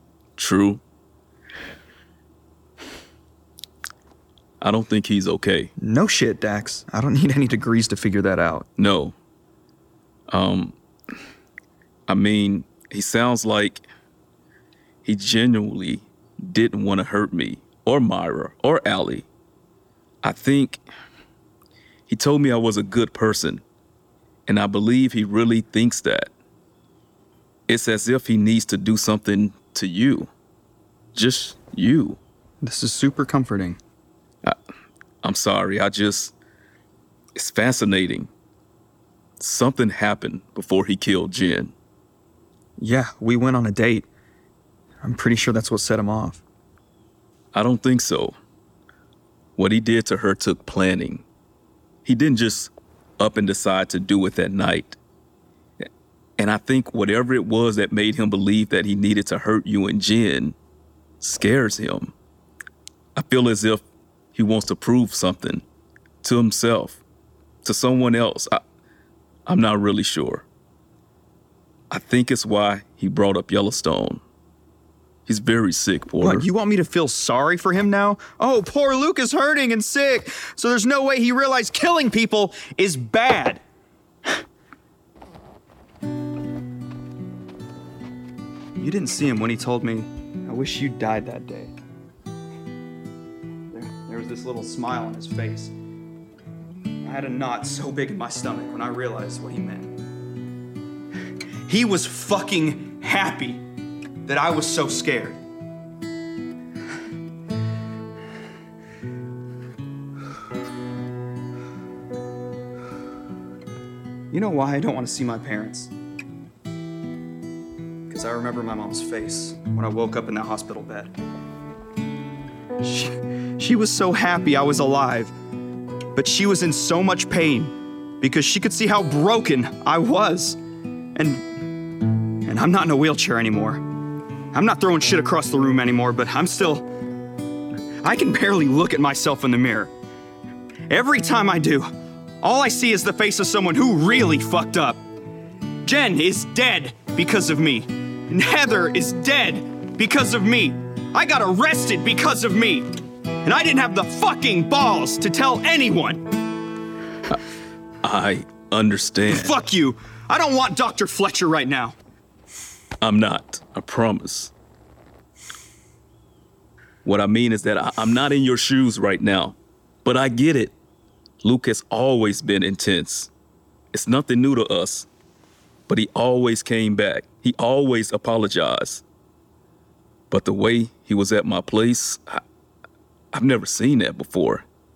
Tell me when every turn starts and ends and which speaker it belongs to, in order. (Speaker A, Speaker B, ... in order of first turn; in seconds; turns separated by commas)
Speaker A: 0.4-0.8, Speaker A: 4.6-5.7, Speaker B: 5.8-8.7, Speaker A: 8.8-9.1, Speaker A: 10.3-10.7, Speaker A: 12.1-13.8, Speaker A: 15.0-19.3, Speaker A: 20.2-20.8, Speaker A: 22.1-23.6, Speaker A: 24.4-26.3, Speaker A: 27.7-30.3, Speaker A: 31.1-32.2, Speaker B: 32.6-33.8, Speaker A: 35.2-36.3, Speaker A: 37.4-38.3, Speaker A: 39.4-41.7, Speaker B: 42.8-44.1, Speaker B: 45.0-46.4, Speaker A: 47.5-48.4, Speaker A: 49.6-51.2, Speaker A: 52.0-55.0, Speaker A: 56.4-60.5, Speaker A: 61.2-62.1, Speaker A: 63.1-63.8, Speaker A: 64.3-65.6, Speaker A: 66.2-67.0, Speaker A: 67.6-68.6, Speaker A: 69.5-70.5, Speaker A: 71.9-74.2, Speaker A: 75.2-76.5, Speaker B: 76.2-83.6, Speaker B: 88.8-91.7, Speaker B: 93.7-95.7, Speaker B: 97.0-99.9, Speaker B: 101.7-103.6, Speaker B: 104.2-105.4, Speaker B: 114.3-115.9, Speaker B: 118.1-121.1, Speaker B: 122.8-125.3, Speaker B: 126.1-130.6, Speaker B: 131.1-131.4, Speaker B: 132.4-133.8, Speaker B: 134.5-136.9, Speaker B: 138.0-139.9, Speaker B: 140.9-141.9, Speaker B: 142.4-145.0, Speaker B: 145.8-152.9, Speaker B: 153.4-156.2, Speaker A: 158.0-159.6, Speaker B: 159.3-161.9, Speaker A: 163.0-164.5, Speaker A: 167.0-170.7, Speaker A: 171.4-173.3, Speaker A: 173.9-175.1, Speaker A: 175.9-179.0, Speaker A: 180.3-182.4, Speaker A: 183.3-184.6